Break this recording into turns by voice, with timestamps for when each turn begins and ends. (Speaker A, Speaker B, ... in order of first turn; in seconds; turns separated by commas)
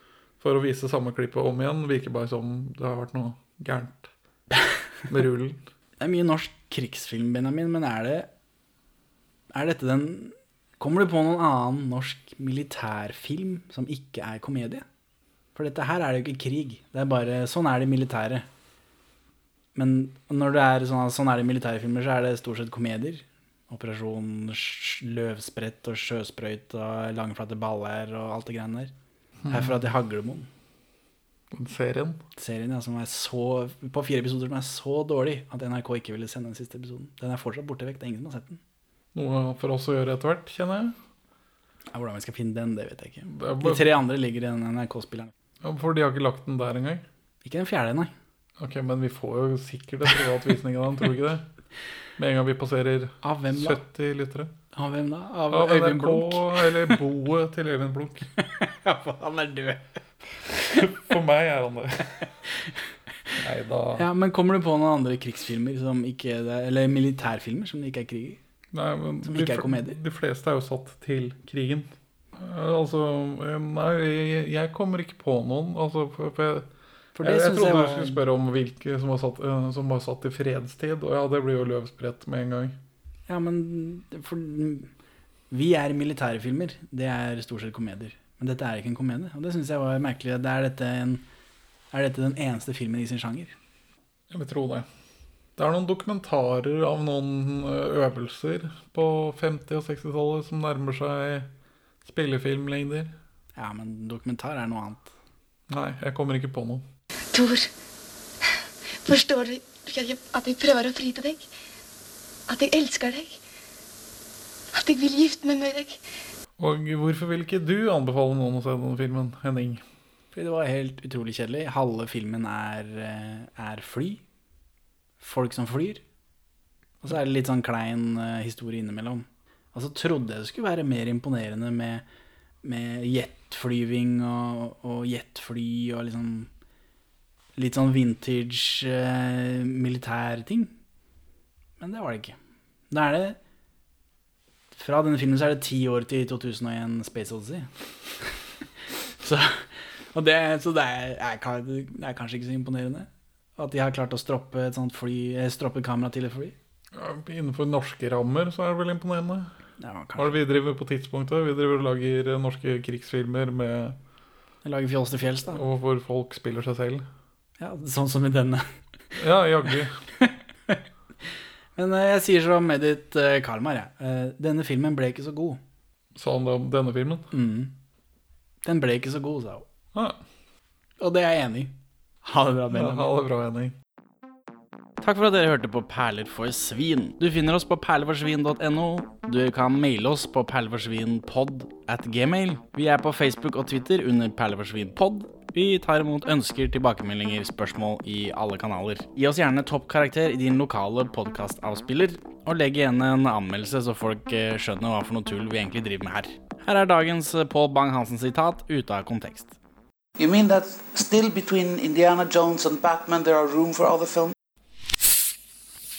Speaker A: 0.4-4.1, Speaker A: 5.1-5.6, Speaker B: 6.0-8.3, Speaker B: 9.5-14.8, Speaker B: 15.5-18.4, Speaker B: 19.7-28.9, Speaker A: 29.4-29.7, Speaker B: 29.5-30.5, Speaker A: 31.5-32.2, Speaker B: 32.4-38.6, Speaker A: 39.1-41.0, Speaker B: 41.9-45.3, Speaker A: 43.3-43.9, Speaker A: 45.6-47.0, Speaker B: 47.4-48.1, Speaker A: 48.6-51.5, Speaker A: 52.2-54.5, Speaker B: 53.2-53.8, Speaker B: 54.7-57.0, Speaker A: 55.5-58.3, Speaker B: 58.4-59.9, Speaker A: 60.7-62.3, Speaker A: 63.4-64.1, Speaker B: 64.0-68.4, Speaker A: 68.7-76.7, Speaker B: 69.2-70.0, Speaker B: 77.2-78.2, Speaker A: 77.2-82.8, Speaker B: 83.3-84.9, Speaker B: 85.5-91.2, Speaker B: 91.9-93.5, Speaker A: 94.3-94.9, Speaker A: 95.6-101.5, Speaker A: 102.0-103.1, Speaker B: 103.6-105.1, Speaker A: 105.7-106.8, Speaker C: 107.3-107.7, Speaker C: 109.0-111.5, Speaker C: 112.5-113.4, Speaker C: 114.7-116.0, Speaker A: 116.6-119.8, Speaker B: 120.3-124.2, Speaker B: 125.2-126.0, Speaker B: 127.0-132.0, Speaker B: 132.6-136.5, Speaker B: 137.6-140.7, Speaker B: 141.8-142.3, Speaker B: 142.9-143.4, Speaker B: 144.7-147.7, Speaker B: 149.2-156.5, Speaker A: 156.9-159.5, Speaker B: 159.8-160.4, Speaker A: 160.2-164.0, Speaker B: 164.6-165.6, Speaker A: 165.5-167.1, Speaker B: 167.6-168.6, Speaker A: 169.2-170.1, Speaker B: 170.2-170.8, Speaker B: 171.8-175.6, Speaker A: 176.2-177.3, Speaker B: 177.3-177.7, Speaker B: 178.6-179.7, Speaker A: 179.9-180.2, Speaker B: 181.0-183.2, Speaker A: 182.7-183.8, Speaker B: 185.0-209.5, Speaker D: 210.2-214.3